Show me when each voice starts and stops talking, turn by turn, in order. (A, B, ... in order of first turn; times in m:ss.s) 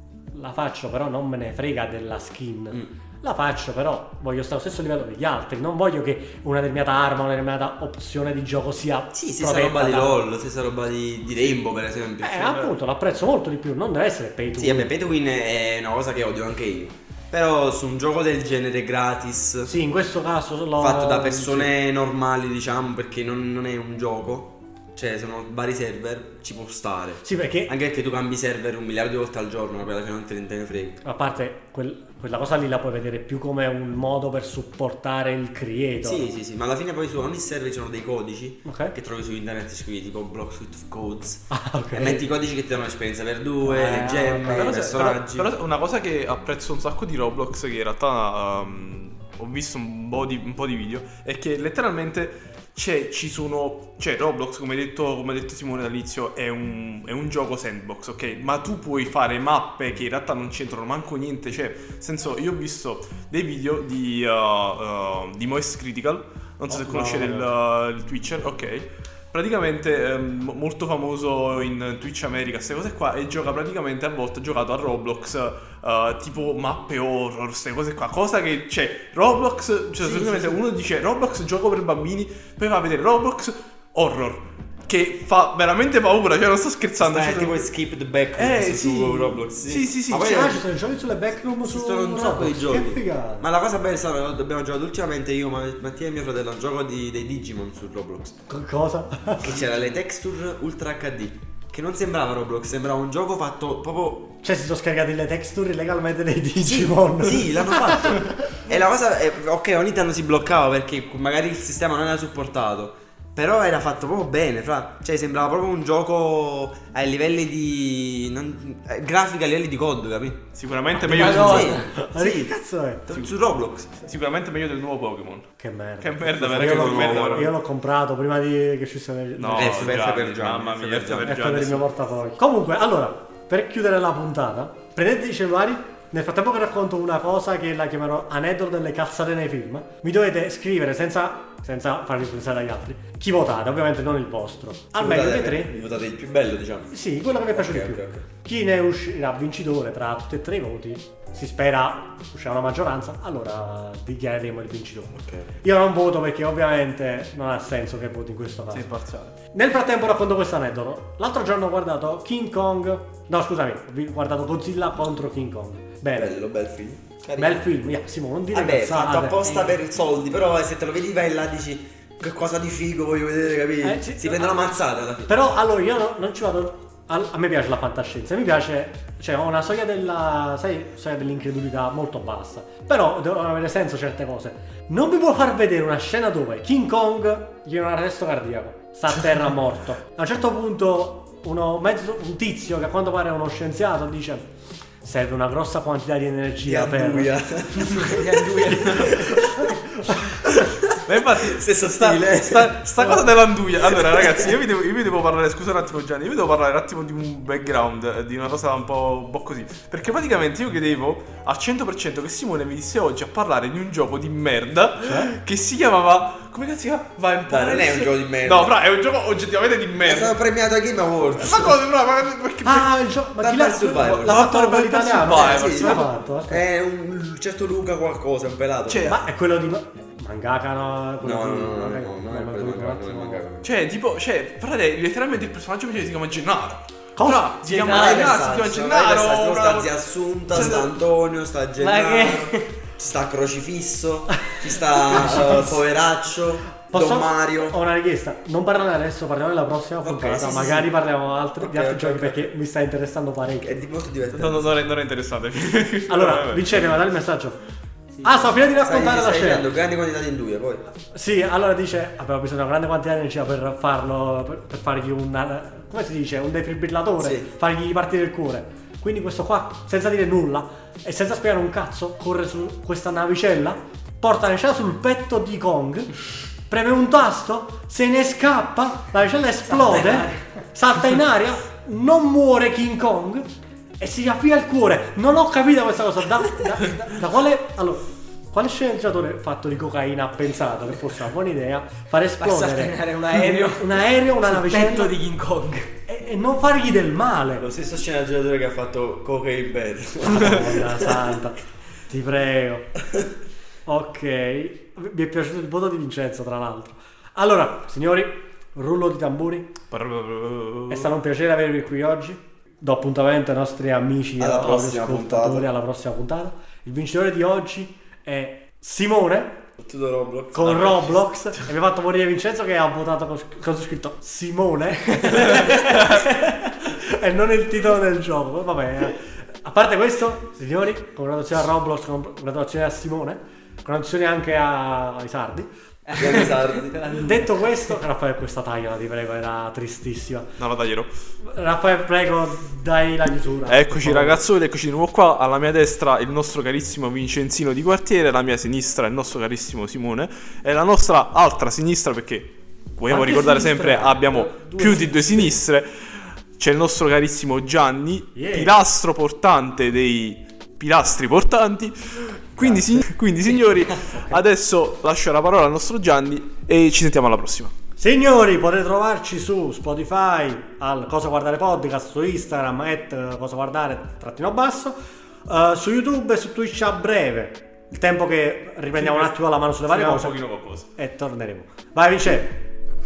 0:00.3-0:10.2 A
0:09.1-0:12.6 B
0:12.2-0:14.9 A
0:14.6-0:19.7 B
0:19.6-0:21.7 A
0:20.8-0:31.0 B
0:27.2-0:27.7 A
0:31.0-0:36.3 A
0:36.0-0:45.5 B
0:38.6-0:38.9 A
0:41.5-0:42.2 A
0:43.6-0:44.8 A
0:44.5-1:27.6 C
1:06.7-1:07.5 A
1:20.0-1:20.5 B
1:27.0-1:30.6 B
1:28.4-1:30.6 C
1:30.1-1:33.4 A
1:31.6-1:38.4 B
1:38.5-1:39.6 A
1:39.4-1:44.3 B
1:44.4-1:48.6 A
1:46.6-2:02.5 B
2:00.5-2:01.9 C
2:01.0-2:01.9 D
2:01.8-2:03.0 A
2:03.1-2:04.0 B
2:04.0-2:07.5 C
2:05.6-2:10.0 A
2:06.4-2:07.5 B
2:09.4-2:11.9 C
2:09.5-2:11.4 B
2:11.2-2:25.7 A
2:24.9-2:26.9 B
2:26.9-2:38.9 A
2:27.5-2:28.2 B
2:35.1-2:35.5 B
2:38.7-2:39.4 C
2:39.5-2:46.3 A
2:46.2-2:47.6 B
2:47.4-2:49.4 A
2:48.5-2:55.4 B
2:49.4-2:49.8 D
2:53.8-2:54.6 A
2:55.3-3:14.4 A
3:15.0-3:17.3 A
3:16.6-3:19.8 B
3:17.9-3:19.1 D
3:19.3-3:20.3 A
3:20.4-3:24.5 B
3:21.0-3:40.4 C
3:37.5-3:38.7 B
3:40.0-3:41.8 B
3:41.4-3:42.9 C
3:42.6-3:46.6 A
3:43.4-3:44.5 B
3:44.2-3:46.1 C
3:45.2-3:49.2 B
3:48.9-3:49.2 C
3:49.1-3:53.4 A
3:51.2-3:53.7 B
3:53.6-3:59.9 C
3:57.2-3:57.5 A
3:57.6-4:07.8 B
3:57.7-3:58.4 D
4:00.5-4:00.9 C
4:01.8-4:02.7 D
4:05.1-4:05.8 A
4:06.9-4:13.8 A
4:10.0-4:10.9 B
4:11.6-4:12.5 B
4:13.6-4:14.8 B
4:14.3-4:16.8 C
4:16.1-4:17.6 A
4:18.2-4:19.6 A
4:18.8-4:20.8 B
4:21.1-4:36.1 A
4:27.2-4:27.5 B
4:36.7-4:43.5 A
4:39.7-4:40.4 D
4:44.0-4:55.1 A
4:52.4-4:55.9 D
4:56.0-4:57.7 A
4:57.6-5:01.2 B
5:00.2-5:02.9 A
5:03.9-5:09.7 A
5:09.9-5:11.1 C
5:10.9-5:19.6 A
5:14.4-5:15.7 B
5:19.8-5:21.1 B
5:20.5-5:35.7 A
5:25.6-5:26.2 C
5:36.1-5:37.5 D
5:36.2-5:37.0 B
5:37.1-5:40.5 A
5:40.6-5:41.1 C
5:41.4-5:44.4 A
5:43.7-6:07.7 C
5:53.1-5:55.6 D
5:58.3-5:58.7 A
6:08.0-6:15.0 A
6:15.5-6:20.4 A
6:18.9-6:19.3 C
6:19.8-6:20.9 C
6:20.9-6:22.5 A